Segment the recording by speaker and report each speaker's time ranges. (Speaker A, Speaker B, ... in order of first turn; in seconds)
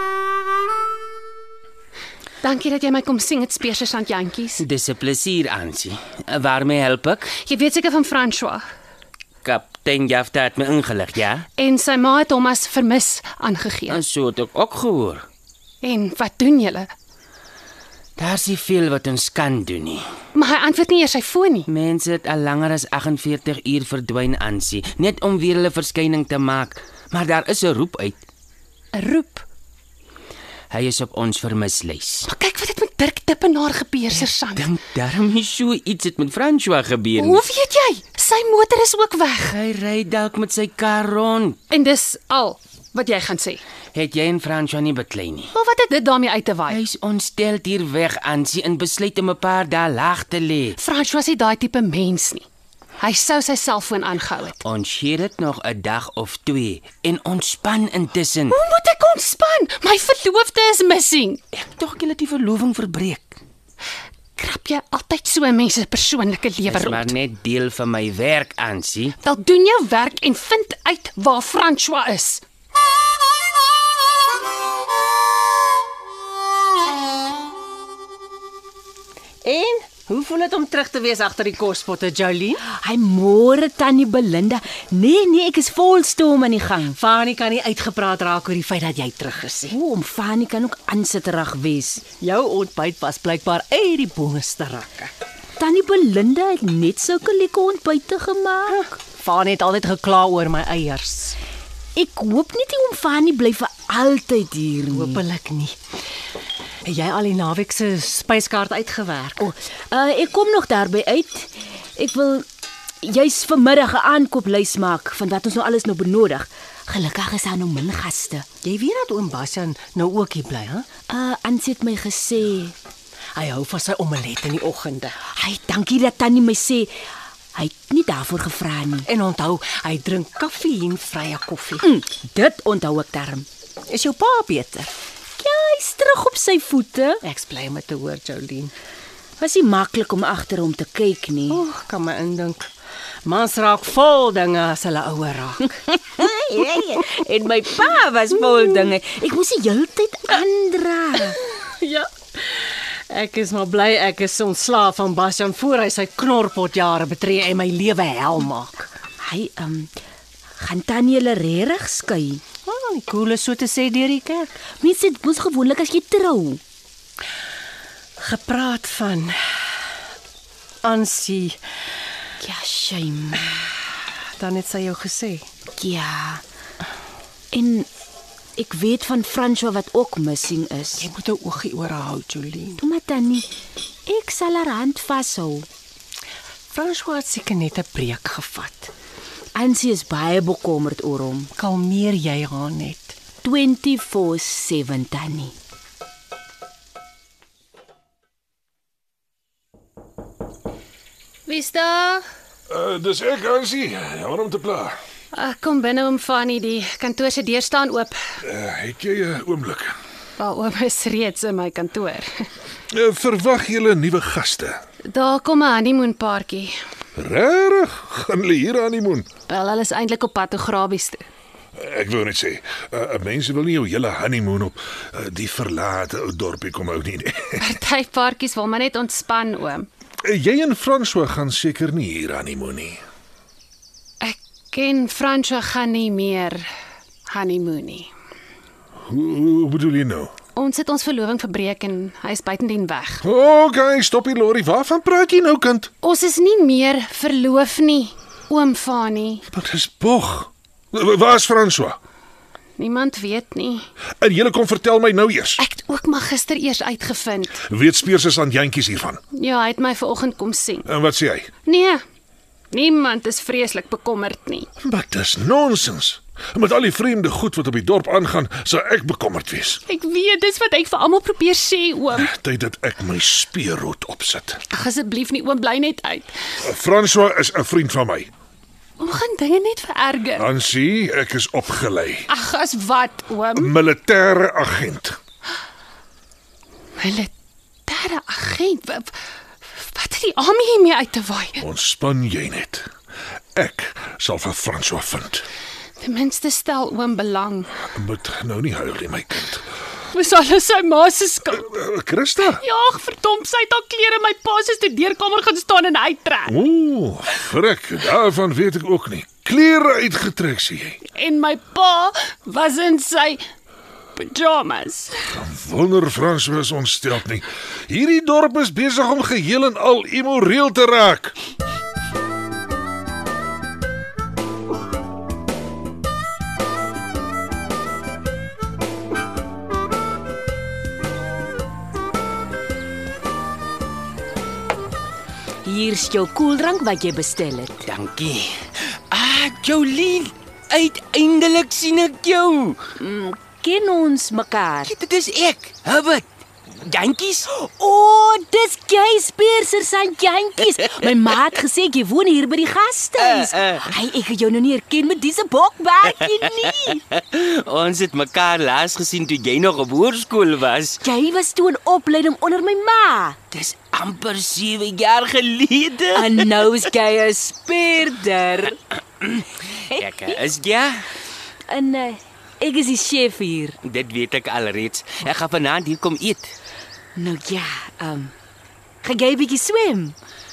Speaker A: 2.4-4.6, 7.3-8.6, 11.6-14.0, 15.8-16.9, 20.4-21.7, 28.9-29.4, 32.3-34.7, 37.1-39.6, 41.7-43.6, 45.5-46.8, 50.8-52.5, 53.0-54.6, 58.5-61.4, 64.4-67.1, 69.2-72.4, 201.5-202.2, 205.3-208.1, 210.4-212.4, 215.1-216.7, 219.5-221.3, 227.6-229.9, 234.2-236.6, 237.3-238.1, 240.6-243.2, 246.0-249.4, 252.8-253.9, 255.6-257.6, 259.3-260.9, 261.7-262.0, 262.7-264.7, 269.9-272.3, 274.7-276.3, 279.0-280.4, 282.3-283.7, 287.0-287.3, 287.9-289.1, 289.8-291.6, 296.0-297.7, 300.1-301.7, 302.6-306.5, 311.1-313.4, 314.2-315.1
Speaker B: 4.6-7.3, 9.4-11.5, 13.9-15.3, 18.2-20.0, 21.7-28.2, 30.7-32.3, 34.1-37.5, 39.5-41.6, 43.9-45.5, 46.7-50.8, 54.6-58.6, 61.5-63.4, 66.7-69.2, 337.9-338.5, 339.1-342.8, 344.9-347.5, 353.2-353.9, 356.6-361.0, 363.5-366.5, 369.9-371.1, 373.8-376.5
Speaker C: 79.4-82.6, 87.0-89.7, 92.2-95.1, 98.7-101.4, 104.9-105.8, 106.8-109.4, 118.6-120.9, 123.3-125.2, 129.1-131.8, 133.9-135.0, 137.2-138.7, 141.5-142.7, 143.2-145.7, 151.3-158.9, 162.7-164.5, 168.2-169.8, 170.8-171.6, 174.4-175.5, 181.0-182.8, 186.7-188.9, 191.6-193.2
Speaker D: 82.7-87.0, 89.7-92.0, 95.6-98.8, 102.0-105.2, 109.4-112.5, 113.0-118.5, 121.1-122.8, 125.3-126.9, 127.5-129.1, 131.8-133.5, 135.4-137.2, 139.4-141.6, 145.9-151.4, 159.2-159.9, 160.6-162.4, 164.8-166.6, 172.4-173.5, 175.8-176.4, 177.5-177.9, 178.6-181.1, 182.8-183.5, 184.1-185.7, 189.6-191.5, 193.4-195.6, 335.6-337.9, 343.0-344.9, 347.6-357.0, 361.0-363.4, 366.1-368.8, 369.9-370.3, 371.7-373.8, 377.2-378.3, 379.0-380.2
Speaker E: 202.7-205.0, 208.4-210.0, 212.9-214.8, 217.2-219.3, 221.8-227.8, 230.2-233.0, 239.1-240.3, 243.2-245.9, 249.5-252.0, 254.2-255.6, 257.7-259.2, 260.9-261.5, 264.8-269.8, 272.1-274.6, 276.6-278.3, 280.4-282.3, 283.6-285.2, 291.6-292.9, 293.6-295.5, 297.9-299.6, 301.6-302.6, 306.5-311.0, 315.3-321.4